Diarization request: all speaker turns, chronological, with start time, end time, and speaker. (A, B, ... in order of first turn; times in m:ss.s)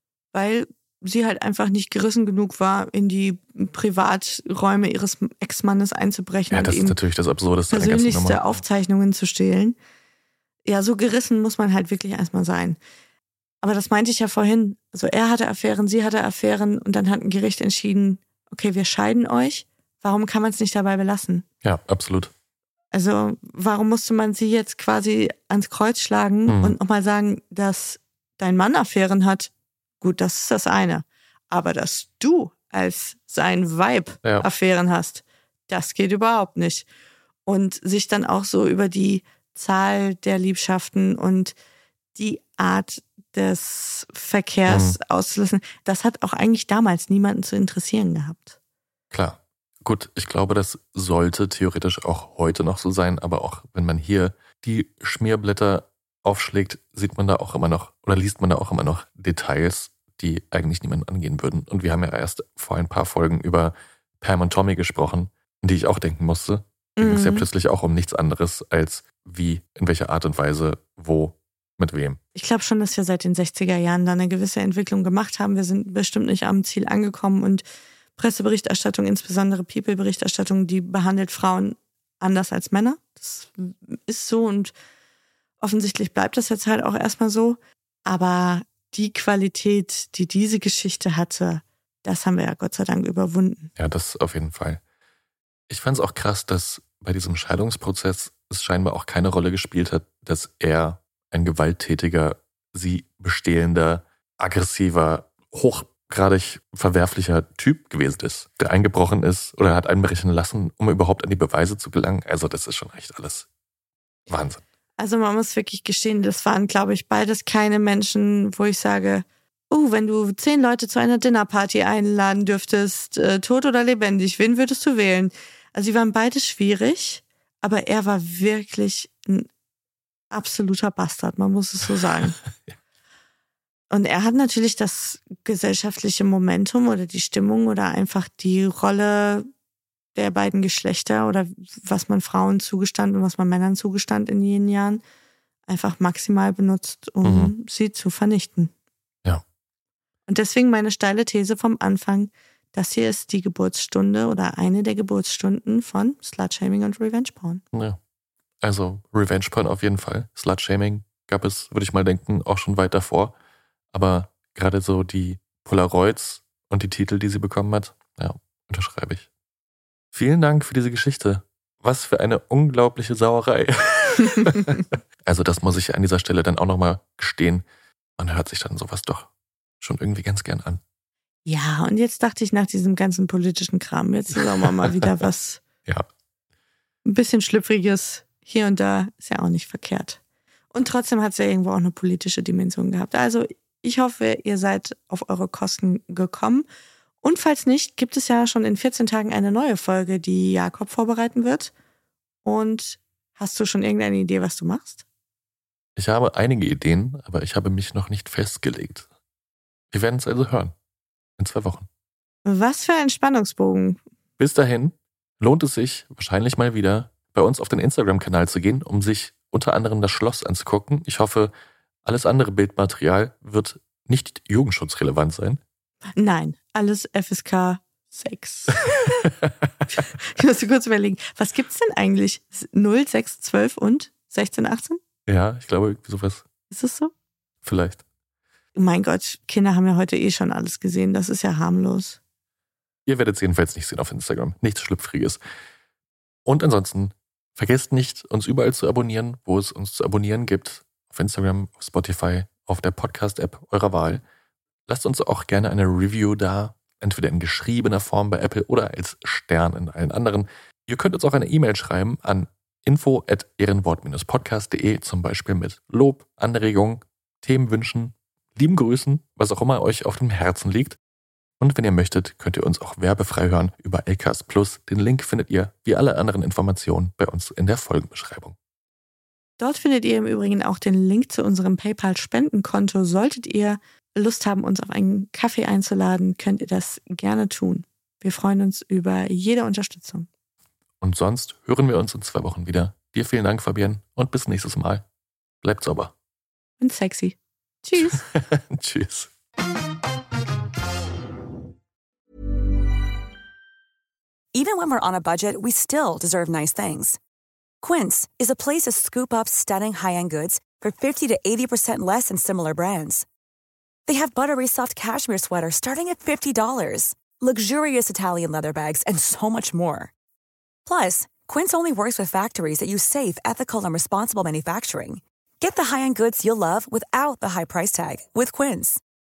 0:00.3-0:07.0 A
0:06.5-0:08.4 B
0:07.7-0:09.8 A
0:10.7-0:12.8 A
0:13.6-0:21.4 A
0:21.6-0:22.3 B
0:22.9-0:36.9 A
0:26.5-0:26.8 B
0:37.5-0:41.6 A
0:42.2-0:48.6 A
0:44.7-0:45.0 B
0:49.1-1:12.2 B
1:07.0-1:07.5 A
1:12.4-1:17.6 A
1:18.2-1:24.7 A
1:25.6-1:33.7 A
1:33.8-1:34.8 B
1:35.7-1:53.5 B
1:54.3-1:54.6 B
1:55.0-2:09.5 A
2:10.3-2:12.4 A
2:13.9-2:19.5 A
2:20.2-2:25.0 A
2:25.7-2:28.7 A
2:27.2-2:27.5 B
2:30.3-2:37.6 A
2:37.7-2:38.0 B
2:38.6-2:43.3 B
2:43.9-2:49.3 B
2:50.1-2:57.6 B
2:58.2-2:59.3 B
2:59.8-3:00.8 B
3:01.5-3:05.6 A
3:07.1-3:10.2 A
3:10.7-3:16.7 A
3:17.2-3:21.7 A
3:22.4-3:25.0 A
3:26.0-3:29.1 B
3:29.9-3:30.7 B
3:31.4-3:31.9 B
3:32.4-3:34.0 A
3:34.4-3:41.5 B
3:42.0-3:45.6 B
3:46.2-3:49.2 A
3:50.2-3:55.0 A
3:55.3-3:56.4 B
3:56.7-3:57.1 A
3:57.6-3:58.0 B
3:58.8-4:02.2 A
4:03.1-4:05.4 B
4:06.5-4:14.2 B
4:14.9-4:31.0 B
4:31.6-4:38.6 B
4:39.6-4:50.3 A
4:51.0-4:55.0 B
4:55.6-4:56.1 B
4:56.8-4:58.2 A
4:58.0-4:59.3 B
5:04.6-5:07.2 C
5:07.8-5:13.2 C
5:14.1-5:20.1 C
5:20.9-5:29.0 C